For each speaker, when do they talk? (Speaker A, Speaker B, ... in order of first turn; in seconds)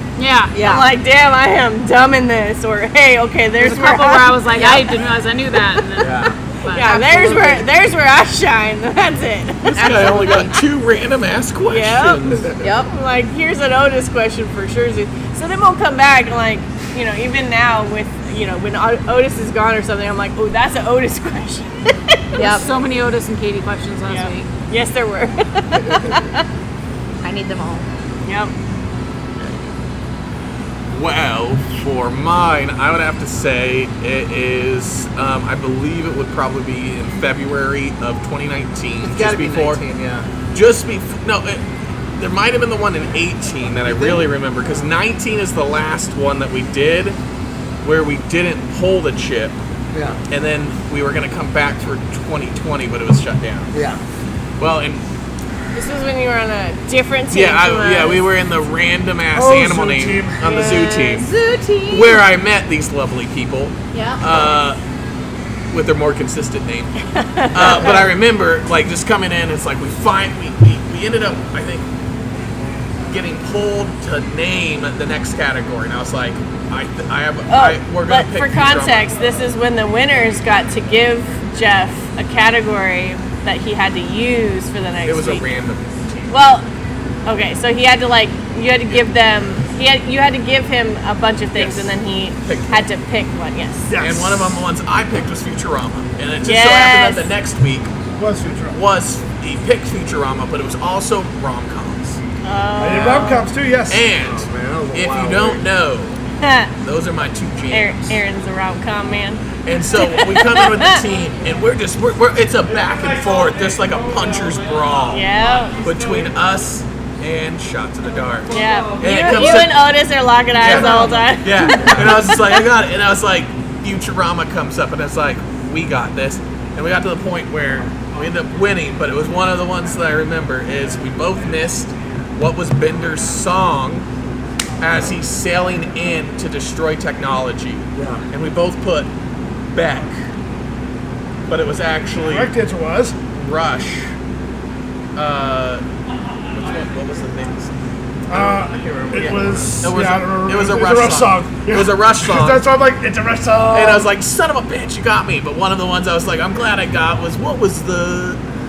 Speaker A: 0.2-0.6, 3.6-6.9, 22.3-24.5
Speaker B: 0.5-0.9, 6.8-7.7, 12.6-12.9, 22.4-22.6, 27.2-27.8, 60.5-62.2, 63.9-64.4
Speaker C: 0.6-4.8, 5.8-10.6, 11.7-22.4, 24.1-26.4, 28.2-28.5, 55.7-58.2, 67.1-68.1, 77.5-85.4, 86.3-86.7, 87.2-93.9, 96.4-97.3, 102.4-103.5, 106.4-106.7, 107.7-111.0, 115.1-115.8, 118.5-122.6
Speaker D: 6.0-6.3, 25.8-26.1, 39.0-40.3, 43.8-44.3, 49.9-50.2, 53.7-54.0, 104.2-105.6, 121.8-122.1, 137.9-138.2, 148.3-149.8
Speaker E: 9.6-12.5, 29.4-29.7, 30.9-39.8, 40.5-41.6, 42.2-47.2, 47.8-49.5, 50.3-53.7, 54.6-55.0, 57.3-61.3, 61.9-64.8, 65.7-71.8, 73.1-79.1, 85.0-85.9, 91.5-92.9, 94.0-97.9, 98.7-102.2, 103.9-106.2, 106.8-108.2, 109.6-115.2, 115.8-120.0, 120.6-134.1, 134.8-139.1, 139.7-140.1, 141.5-142.5, 143.3-144.1, 145.2-145.8, 146.5-147.7, 149.8-152.6, 153.7-158.4
Speaker F: 59.3-60.5, 93.9-94.4, 98.2-98.8, 102.8-104.0, 120.7-121.3, 142.2-143.2, 148.3-154.1